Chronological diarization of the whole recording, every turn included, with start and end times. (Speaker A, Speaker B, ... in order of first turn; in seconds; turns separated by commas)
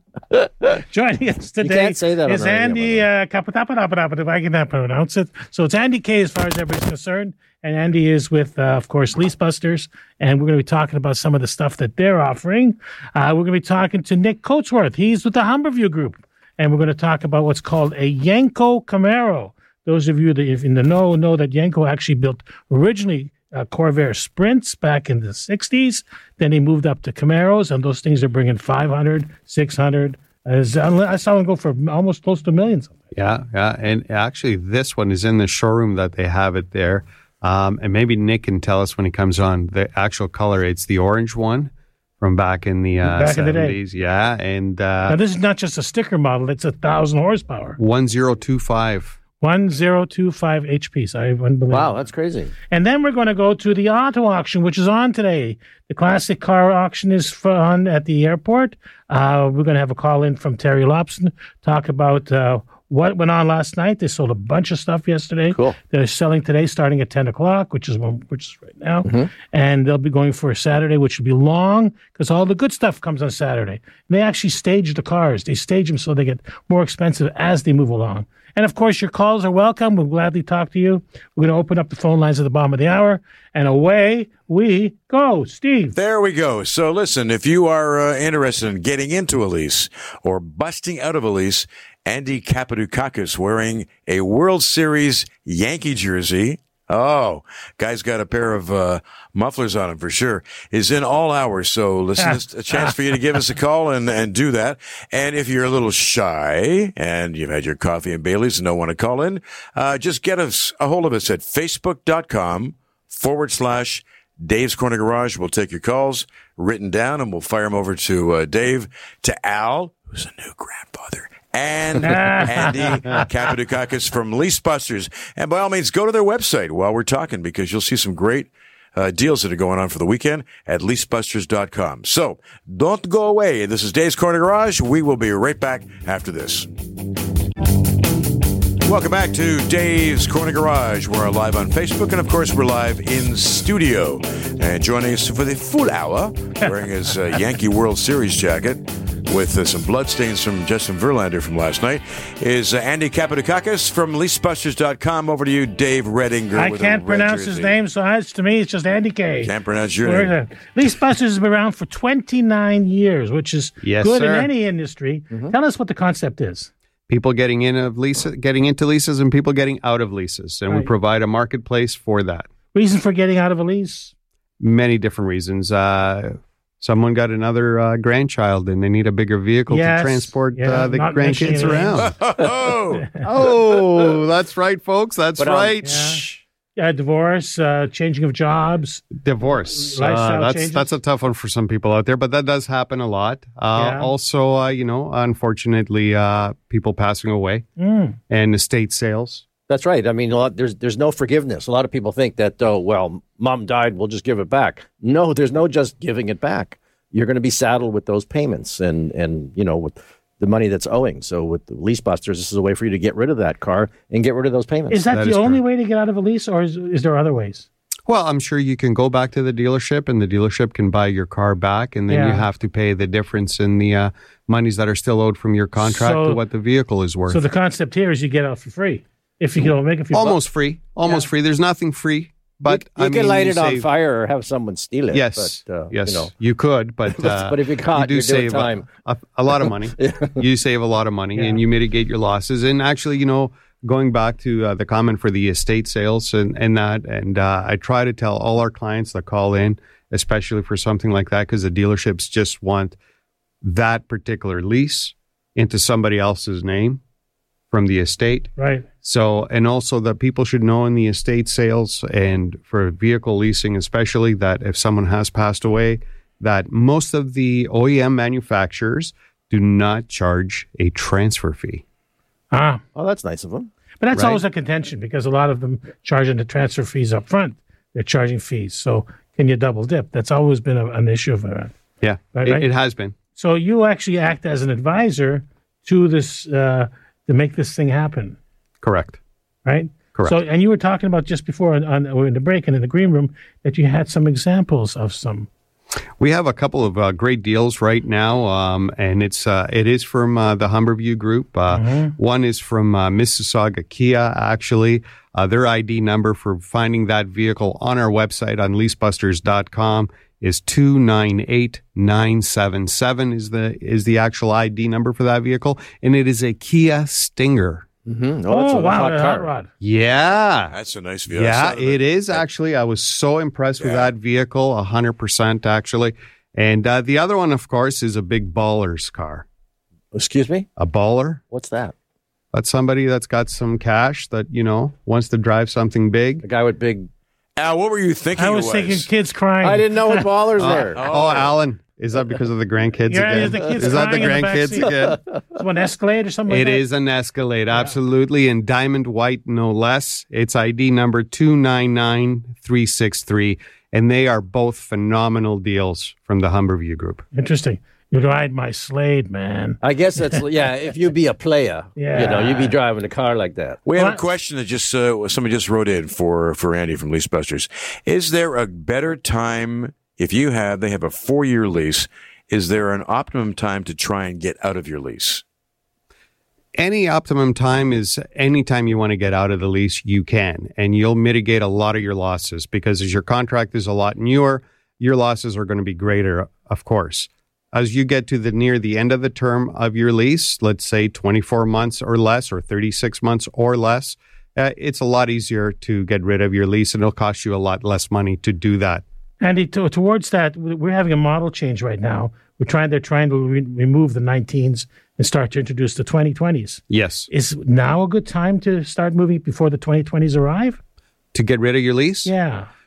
Speaker A: 0.3-0.8, Speaker B: 0.9-33.0, Speaker A: 1.6-3.1, Speaker C: 33.1-45.2, Speaker B: 43.0-43.8, Speaker B: 45.1-47.8, Speaker C: 47.8-49.2, Speaker B: 49.4-52.0, Speaker A: 51.7-52.5, Speaker B: 52.7-86.0, Speaker A: 69.0-69.3, Speaker D: 86.0-136.7, Speaker B: 102.2-102.9, Speaker B: 122.0-123.2, Speaker D: 138.8-157.7, Speaker B: 156.6-166.7, Speaker D: 159.4-160.3, Speaker C: 163.8-164.5, Speaker C: 167.1-172.5, Speaker B: 172.7-174.1, Speaker C: 174.6-182.1, Speaker B: 179.7-182.1, Speaker D: 182.0-183.1, Speaker C: 183.2-186.2, Speaker A: 185.4-186.4, Speaker B: 185.8-186.2, Speaker B: 186.8-189.0, Speaker C: 189.1-197.7, Speaker B: 189.7-190.9, Speaker B: 193.8-194.1, Speaker B: 197.8-198.2, Speaker C: 198.3-199.5, Speaker A: 199.7-215.1, Speaker B: 214.9-217.7, Speaker C: 215.1-215.6, Speaker C: 218.1-227.4, Speaker B: 222.1-222.5, Speaker B: 225.8-226.4, Speaker B: 227.3-230.4, Speaker C: 230.1-233.9, Speaker A: 232.7-236.3, Speaker C: 235.1-253.0, Speaker A: 237.1-238.9, Speaker A: 240.0-240.4, Speaker C: 253.6-257.0, Speaker C: 257.7-271.8, Speaker B: 258.6-258.9, Speaker B: 272.5-272.8, Speaker A: 272.9-273.7, Speaker B: 274.0-281.7, Speaker C: 274.1-274.4, Speaker C: 282.0-283.1, Speaker B: 282.4-282.7, Speaker B: 283.4-288.4, Speaker C: 288.8-289.2, Speaker B: 289.7-295.5, Speaker C: 296.2-317.9, Speaker B: 301.7-302.1, Speaker A: 318.1-319.5, Speaker B: 318.5-319.7, Speaker C: 319.8-320.8, Speaker D: 320.7-322.5, Speaker C: 321.3-329.5, Speaker D: 323.8-324.1, Speaker A: 330.1-330.7, Speaker C: 330.8-331.4, Speaker A: 331.5-331.9, Speaker C: 332.5-336.4, Speaker A: 336.4-337.1, Speaker D: 337.6-339.1, Speaker B: 338.4-340.3, Speaker A: 339.6-341.0, Speaker C: 340.6-345.2, Speaker D: 340.9-341.6, Speaker B: 343.1-346.8, Speaker C: 346.5-357.2, Speaker B: 357.3-359.8, Speaker A: 359.8-363.8, Speaker B: 362.0-362.7, Speaker D: 363.9-375.4, Speaker C: 376.8-399.0, Speaker B: 399.4-410.8, Speaker C: 406.9-407.3, Speaker C: 411.3-412.3, Speaker B: 412.3-412.7